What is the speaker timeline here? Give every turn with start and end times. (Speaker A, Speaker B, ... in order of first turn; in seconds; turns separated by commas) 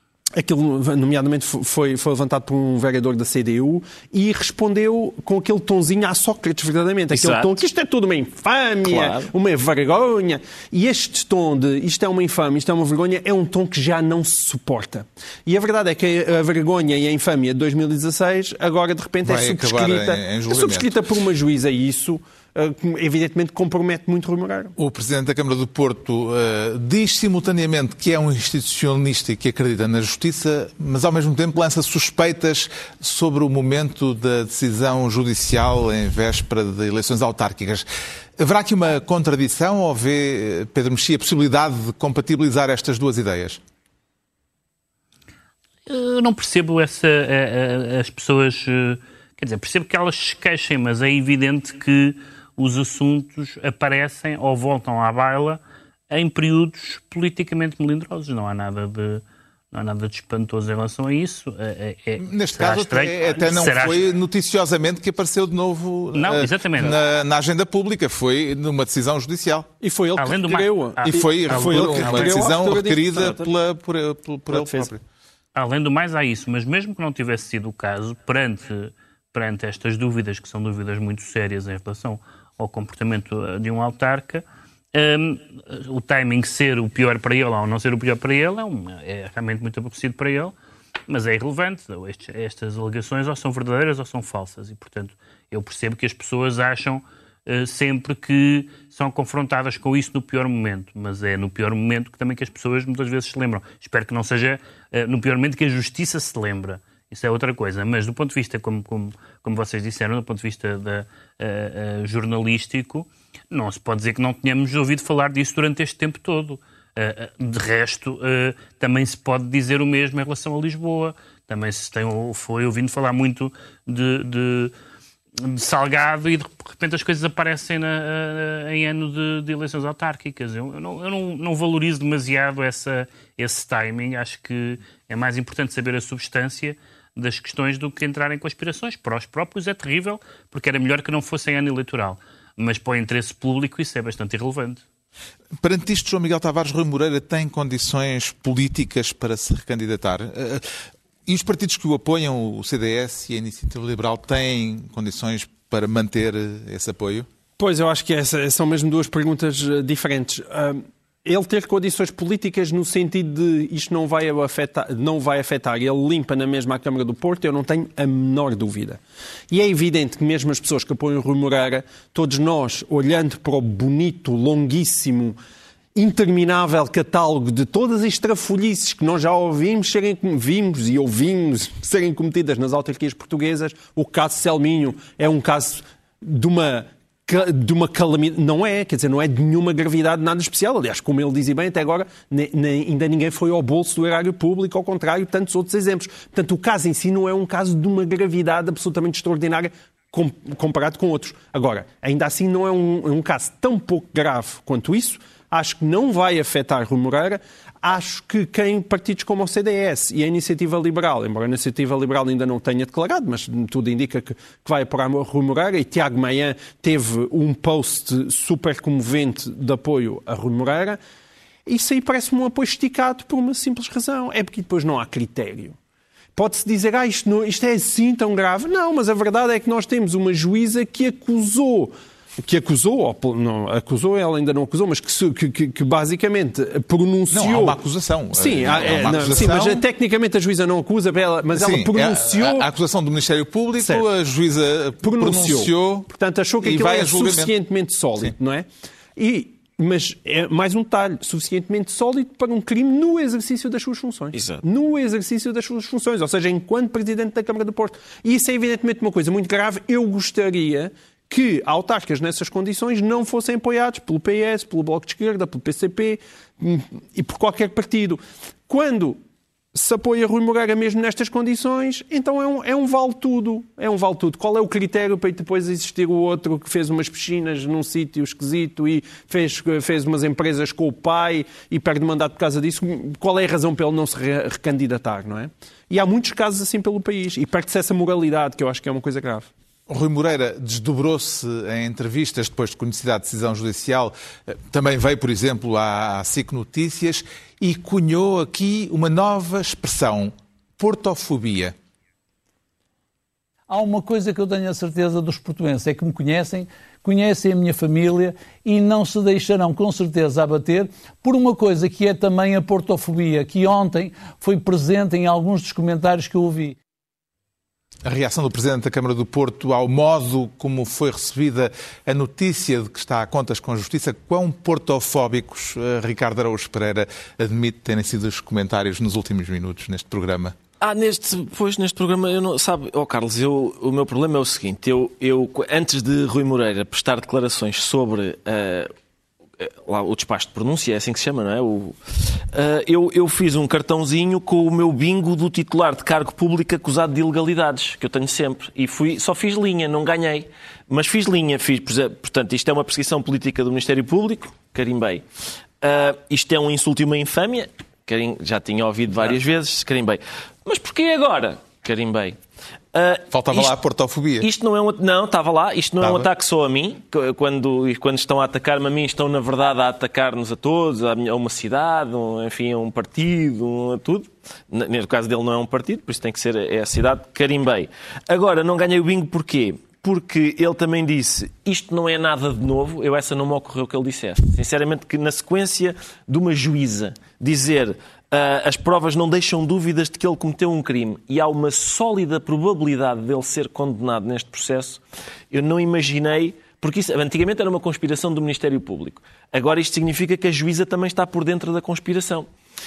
Speaker A: 0.3-24.8, Speaker B: 7.1-7.5, Speaker B: 8.8-9.3, Speaker C: 19.2-21.0, Speaker C: 24.8-37.9, Speaker C: 38.4-43.6, Speaker D: 45.9-64.1, Speaker C: 62.2-69.7, Speaker D: 66.2-67.0, Speaker A: 69.8-73.5, Speaker D: 70.2-72.4, Speaker C: 71.0-75.0, Speaker A: 74.5-74.9, Speaker D: 75.5-90.5, Speaker D: 91.1-124.7, Speaker D: 125.4-144.8, Speaker C: 145.6-157.3, Speaker A: 157.6-175.4, Speaker A: 175.9-221.0, Speaker A: 221.7-225.8, Speaker A: 226.4-237.8, Speaker C: 237.3-239.8, Speaker A: 238.3-242.7, Speaker C: 241.6-246.1, Speaker A: 243.8-244.1, Speaker A: 245.0-269.2, Speaker C: 246.6-247.5, Speaker B: 254.3-254.6, Speaker A: 269.7-289.5, Speaker C: 289.9-301.8, Speaker E: 303.7-316.8, Speaker C: 318.1-330.6, Speaker B: 330.8-338.9, Speaker B: 339.6-355.3, Speaker B: 355.8-362.4, Speaker B: 362.9-363.8, Speaker C: 363.3-364.5, Speaker B: 364.4-402.5, Speaker C: 366.0-366.3